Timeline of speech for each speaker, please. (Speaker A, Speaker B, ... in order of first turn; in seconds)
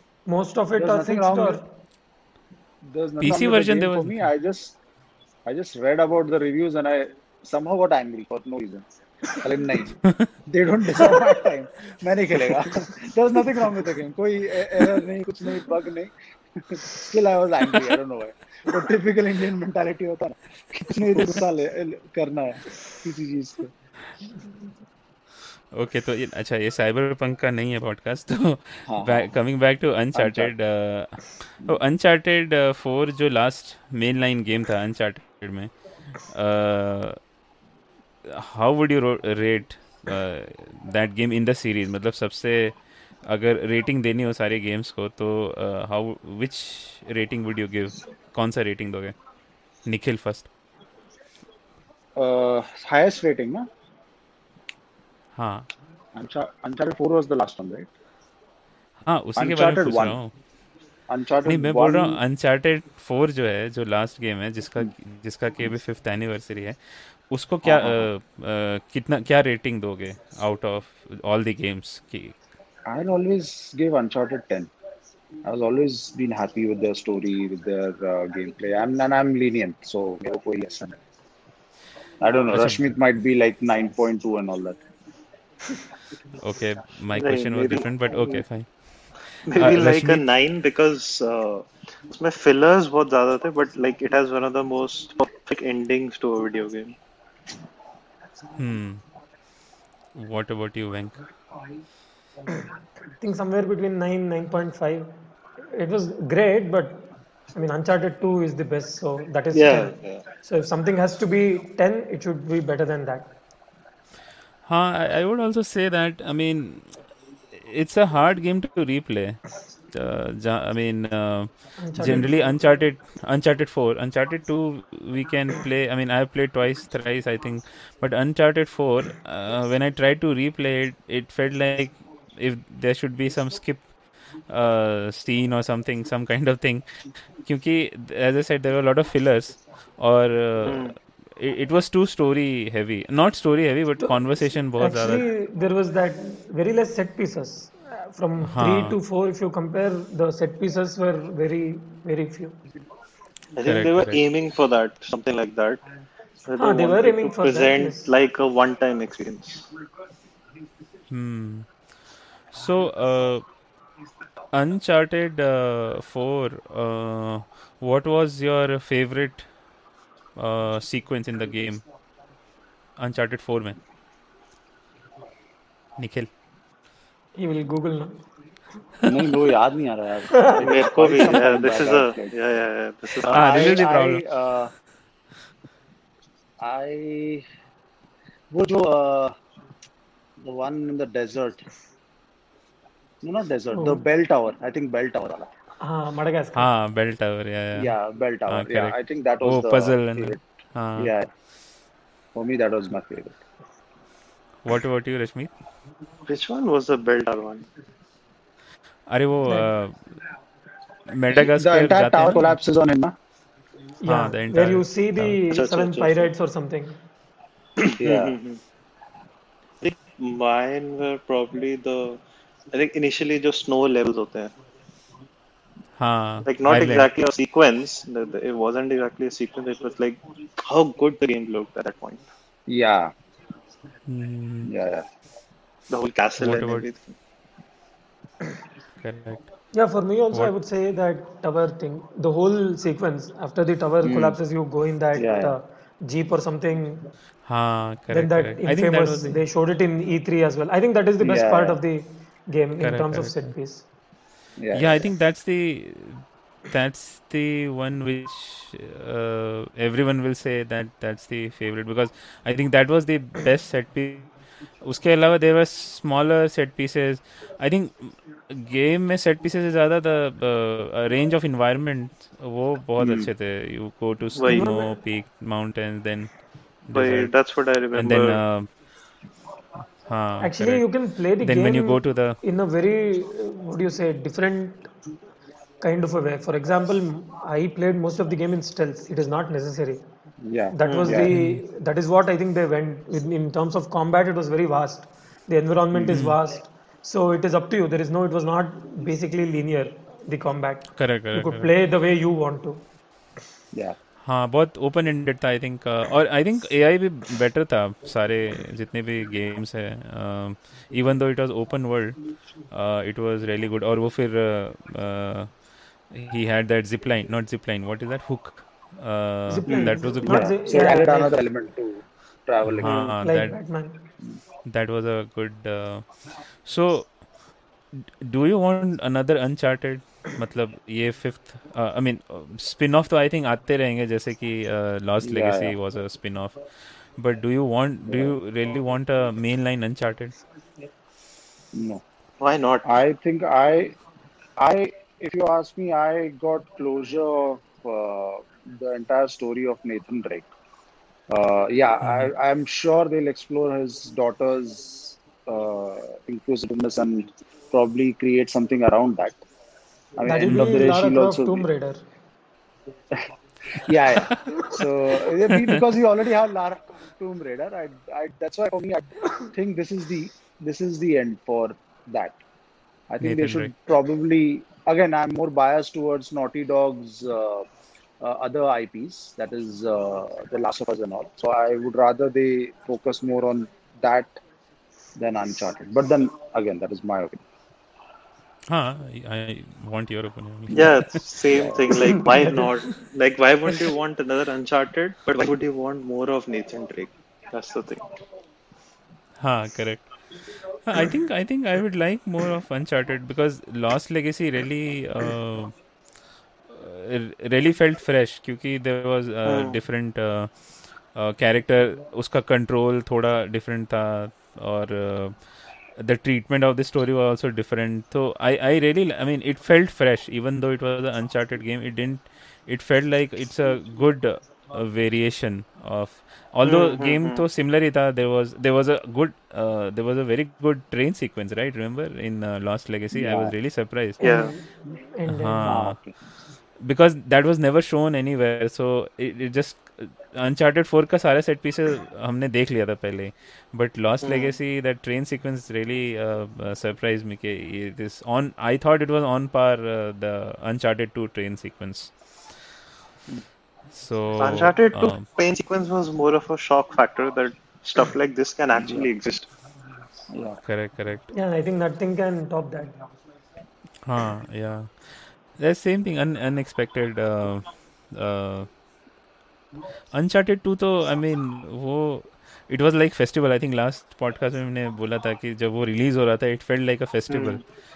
Speaker A: 0.3-1.6, 103.2-105.1, 105.7-113.3, 121.8-122.5, 144.8-152.6, 156.6-158.1, 177.4-178.2, 180.3-180.6, 193.7-194.1, 195.8-196.7, 214.0-217.0, 239.7-247.1, 248.1-253.8, 274.5-275.0, 280.4-284.9, 285.8-290.0, 290.7-302.8, 319.5-321.4, 323.2-324.0, 360.2-362.0, 434.2-435.8, 461.3-463.0
Speaker B: 0.8-1.6, 2.8-4.8, 5.5-23.7, 28.9-29.4, 30.1-30.5, 52.2-53.7, 56.2-57.9, 59.4-60.2, 61.1-62.2, 67.6-68.1, 72.9-74.7, 75.4-81.0, 82.2-84.8, 179.1-182.3, 183.2-184.7, 186.6-187.4, 188.5-189.3, 190.4-191.6, 193.2-195.5, 197.7-200.4, 201.0-201.3, 202.3-203.4, 211.3-213.2, 218.0-218.4, 232.7-233.1, 234.6-235.1, 244.0-244.4, 245.2-245.6, 251.2-251.8, 254.6-255.1, 273.0-273.3, 290.4-291.3, 319.7-323.1, 335.2-335.8, 338.1-338.4, 341.7-342.0, 342.8-344.0, 344.6-350.5, 351.3-359.4, 360.2-361.7, 363.8-372.4, 373.1-377.7, 378.2-384.4, 385.2-387.4, 391.5-391.9, 433.1-433.5, 435.7-436.1, 458.8-459.1, 460.3-460.6
Speaker C: 3.2-4.2, 25.7-35.7, 36.3-37.2, 38.2-42.8, 43.3-49.1, 49.9-50.5, 55.4-55.7, 59.1-60.3, 61.5-66.8, 67.3-72.3, 82.5-83.0, 86.4-88.7, 89.5-90.2, 98.6-99.0, 100.2-101.2, 114.7-116.9, 117.5-119.4, 119.9-133.9, 134.5-136.9, 137.4-145.2, 148.4-149.0, 153.7-154.2, 161.1-161.7, 162.5-163.4, 164.5-169.4, 170.4-171.8, 173.0-173.8, 176.0-176.3, 183.2-184.2, 196.6-197.9, 198.5-201.1, 204.7-205.5, 209.1-209.9, 211.1-212.6, 214.1-215.4, 226.0-227.1, 234.1-234.7, 236.4-236.9, 239.0-239.5, 247.5-249.4, 252.8-253.4, 254.7-264.3, 264.8-276.3, 276.9-277.3, 277.9-278.7, 280.1-280.9, 281.4-282.4, 291.3-291.6, 296.1-296.4, 301.0-301.7, 304.2-312.2, 312.7-315.5, 316.1-320.6, 322.6-323.6, 324.7-326.1, 326.7-327.1, 328.2-336.6, 337.2-340.4, 352.0-352.3, 360.4-360.7, 365.5-365.8, 373.2-373.7, 388.7-391.2, 399.4-400.1, 400.8-405.7, 406.7-410.5, 411.1-415.3, 416.0-434.2, 435.3-436.0, 436.8-452.1, 453.9-455.3, 460.6-461.3, 464.1-464.9, 465.6-468.7, 470.1-477.6
Speaker D: 87.1-88.4, 89.5-97.0, 109.5-110.2, 140.6-140.9, 153.6-155.8, 156.5-159.7, 180.6-183.7, 206.3-207.7, 215.5-216.3, 217.8-218.6, 219.8-222.2, 222.7-224.5, 226.4-232.3, 235.9-237.1, 274.4-274.7, 276.9-278.4, 290.8-291.2, 322.9-323.1, 342.4-342.9, 390.7-398.1, 409.5-409.8, 426.6-427.4, 434.2-434.5, 444.2-444.5, 454.4-459.5, 477.3-477.6